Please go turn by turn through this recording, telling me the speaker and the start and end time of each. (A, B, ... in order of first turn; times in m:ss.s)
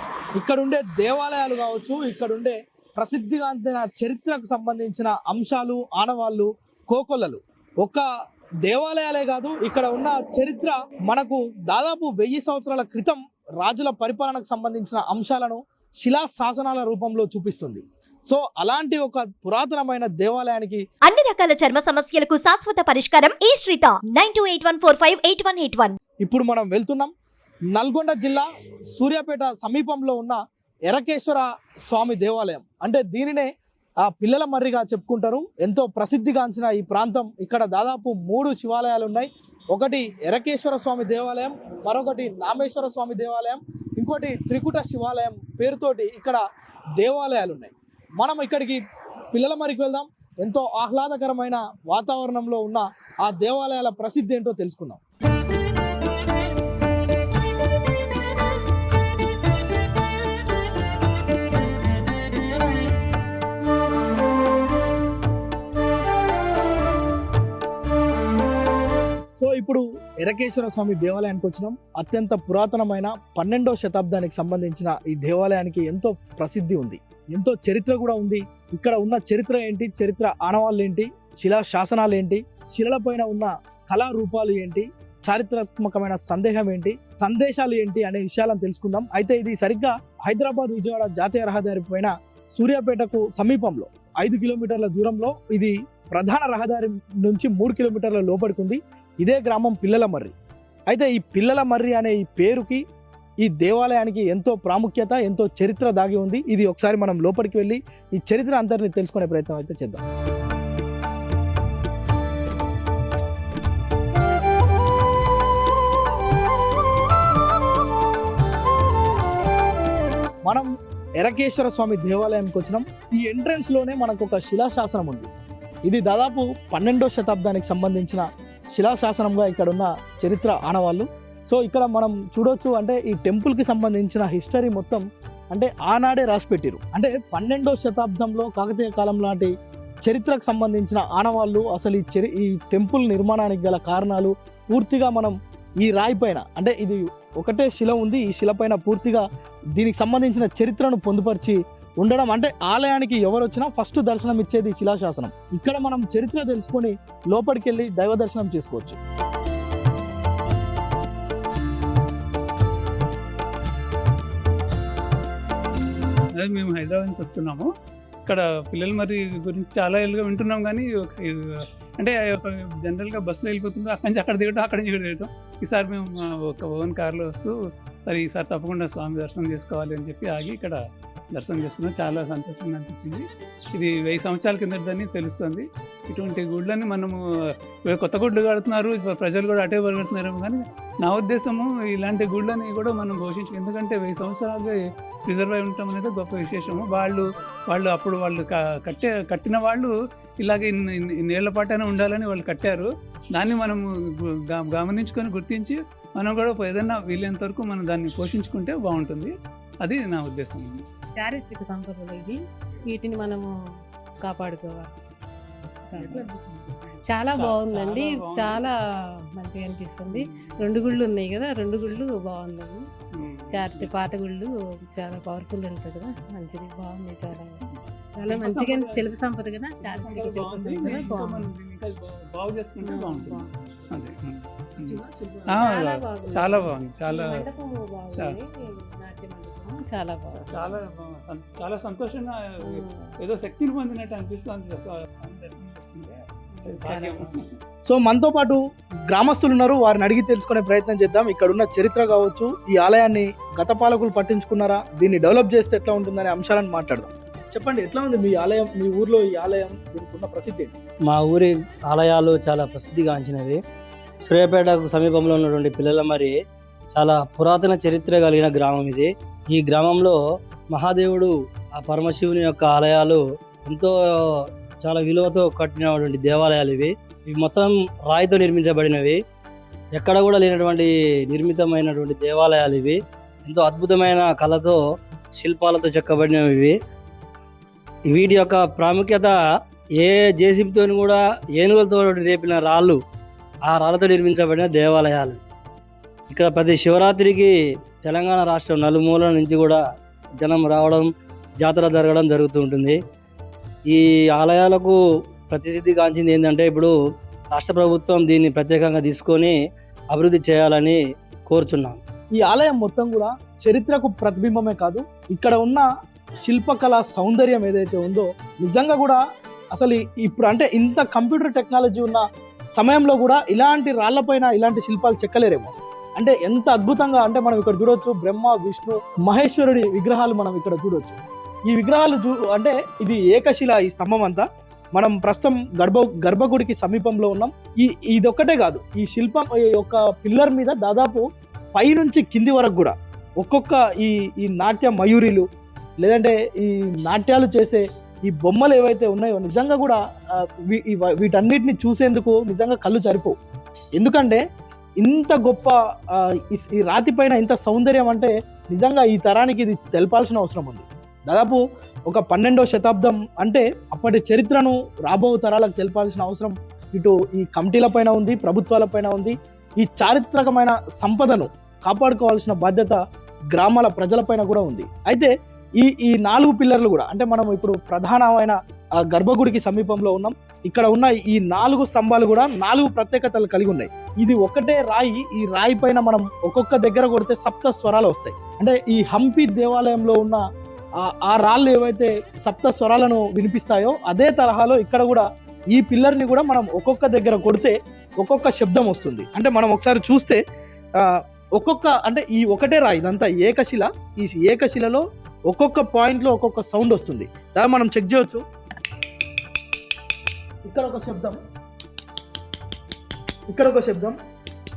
0:00.4-0:08.0 A
0:08.6-0:20.8 A
0:21.0-0:26.0 B
0:26.2-0:27.1 A
0:27.7-0:33.5 A
0:34.0-0:46.4 A
0:47.0-0:48.8 A
0:49.3-0:55.0 A
1:09.4-1:40.3 A
1:40.9-1:42.8 A
1:43.4-1:50.0 A
2:00.4-2:05.3 A
2:05.9-2:08.2 A
2:08.8-2:19.5 A
2:20.0-2:29.2 A
2:29.8-2:39.0 A
2:46.4-2:47.7 C
2:48.2-2:57.5 C
2:58.1-3:00.8 C
3:01.3-3:07.2 C
3:07.9-3:29.3 C
3:29.8-3:30.8 C
3:31.2-3:33.5 D
3:34.2-3:34.9 D
3:35.9-3:36.3 D
3:36.0-3:38.7 C
3:37.1-3:38.7 D
3:39.4-3:42.8 D
3:40.1-3:40.7 C
3:43.1-3:43.9 C
3:43.5-3:47.6 D
3:47.6-3:49.1 C
3:48.2-3:51.5 D
3:49.8-3:57.5 C
3:52.8-3:53.5 D
3:54.8-4:00.8 D
4:00.5-4:07.5 C
4:02.6-4:03.1 D
4:06.5-4:07.3 D
4:07.9-4:20.7 A
4:21.1-4:23.6 E
4:24.2-4:26.3 E
4:26.9-4:30.2 E
4:30.7-4:39.2 E
4:40.0-4:44.8 E
4:45.4-4:46.7 E
4:48.1-4:49.3 E
4:50.0-4:53.0 E
4:53.7-4:55.4 E
4:56.3-4:59.8 E
5:00.4-5:01.1 E
5:01.6-5:03.0 E
5:03.9-5:05.0 E
5:05.5-5:06.9 E
5:07.5-5:09.6 E
5:10.1-5:12.0 E
5:12.4-5:15.8 A
5:16.4-5:19.2 A
5:19.7-5:22.2 A
5:22.8-5:31.2 A
5:31.7-5:41.2 A
5:41.8-5:45.4 A
5:46.0-5:53.3 A
5:54.0-5:54.4 A
5:55.0-6:13.0 A
6:13.5-6:18.6 A
6:19.1-6:30.4 A
6:31.0-6:40.4 A
6:41.0-6:48.4 A
6:50.7-6:51.4 A
6:53.5-6:54.2 A